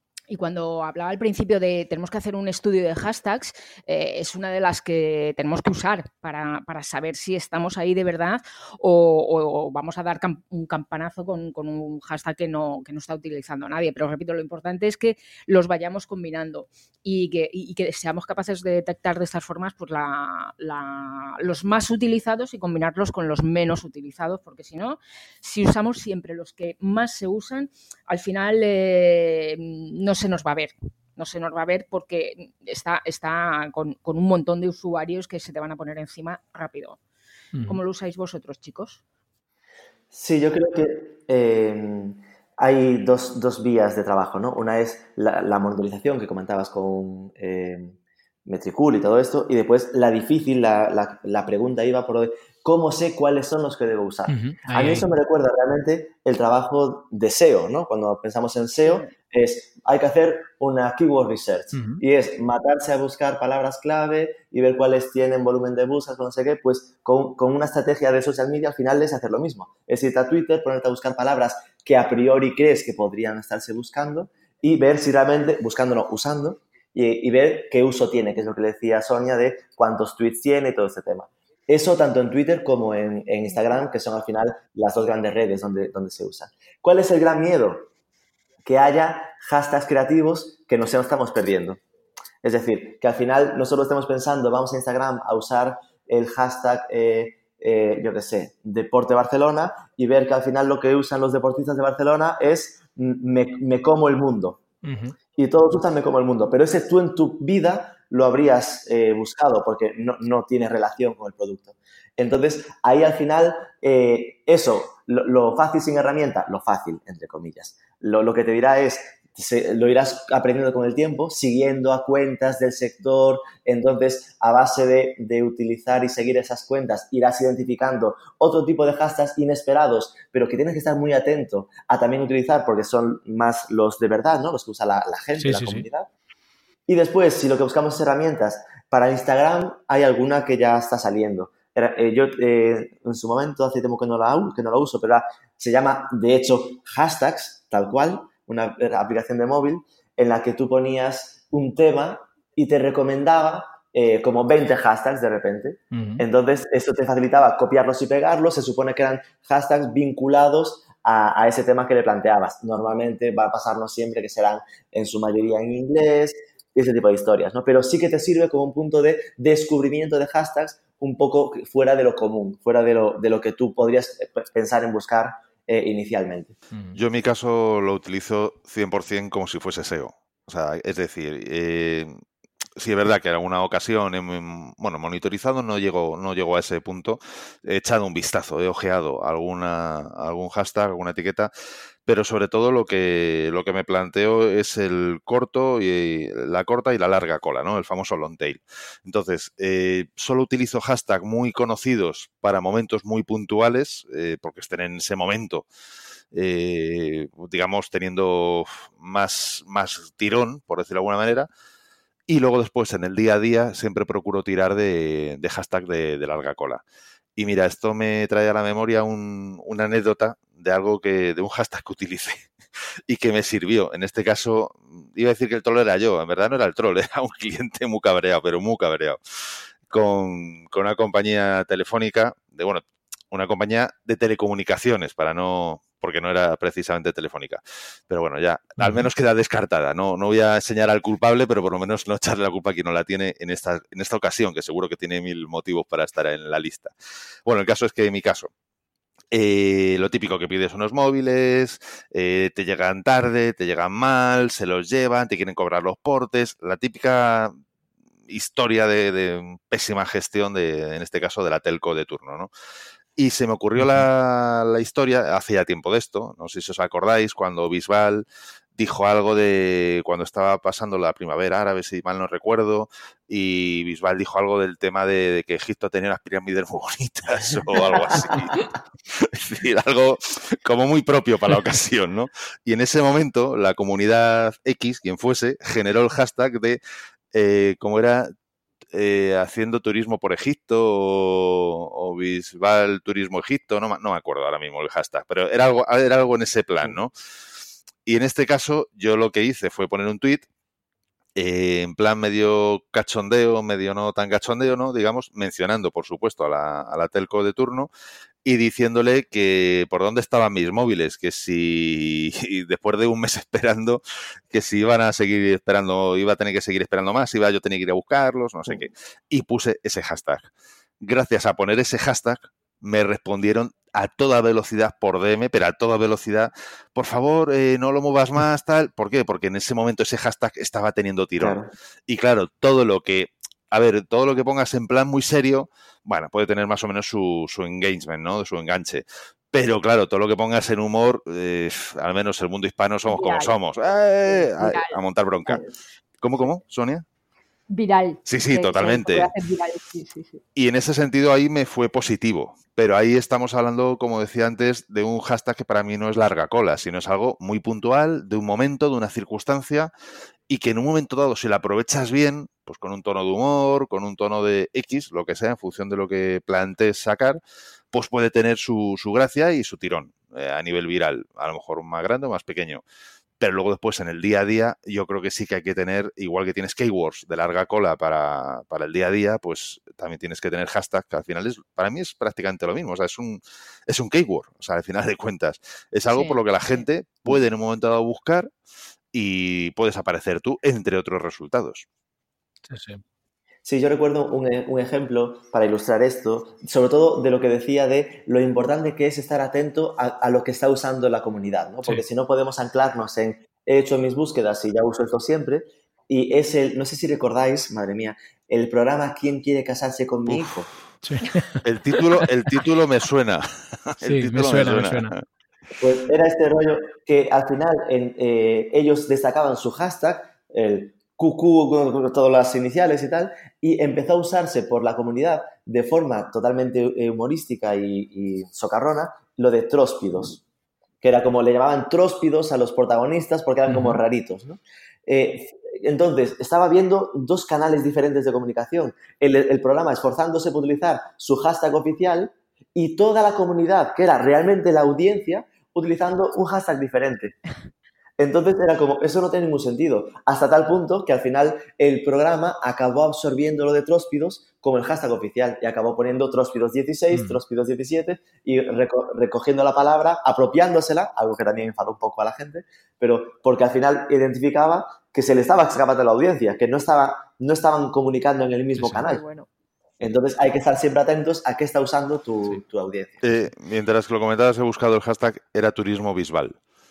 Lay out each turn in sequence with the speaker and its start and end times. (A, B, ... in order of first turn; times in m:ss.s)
0:00.3-0:37.0 A
0:37.7-0:39.0 A
0:40.1-0:47.9 B
0:48.4-1:27.9 B
0:54.3-0:55.1 C
0:58.8-0:59.1 A
1:01.7-1:02.0 C
1:28.6-1:31.8 B
1:32.4-1:44.6 B
1:44.8-1:45.2 C
1:45.4-2:16.1 B
2:15.4-2:15.9 C
2:16.9-2:56.6 B
2:35.9-2:36.2 C
2:56.7-2:57.0 C
2:56.9-3:02.1 D
3:02.8-3:11.5 D
3:12.0-3:25.6 D
3:26.3-3:31.5 D
3:32.3-3:36.8 D
3:37.4-3:42.4 D
3:43.1-3:49.2 D
3:49.9-4:06.9 D
3:58.8-3:59.1 C
4:07.4-4:08.5 D
4:09.3-4:17.5 D
4:18.3-4:22.5 D
4:23.2-4:28.2 D
4:23.8-4:24.0 C
4:28.8-4:46.8 D
4:47.3-4:48.3 D
4:48.9-4:57.1 D
4:58.0-5:00.4 D
5:01.4-5:07.9 D
5:08.4-5:20.5 D
5:21.0-5:45.6 D
5:31.4-5:31.7 B
5:43.1-5:43.5 A
5:44.2-5:45.7 A
5:46.2-5:47.0 D
5:47.7-5:50.4 A
5:48.3-5:49.3 D
5:50.6-5:59.9 D
6:00.5-6:07.4 D
6:07.9-6:12.8 D
6:13.4-6:28.5 D
6:26.1-6:26.8 A
6:29.1-6:31.8 D
6:32.7-6:33.0 C
6:33.6-6:50.7 B
6:51.0-6:51.6 C
6:51.6-6:55.2 D
6:54.0-6:55.1 C
6:55.8-7:10.4 B
7:11.0-7:27.4 B
7:13.7-7:14.0 C
7:28.2-7:49.2 B
7:37.1-7:37.4 C
7:48.7-7:49.0 C
7:49.0-7:49.5 A
7:50.0-7:53.2 B
7:53.2-7:56.5 D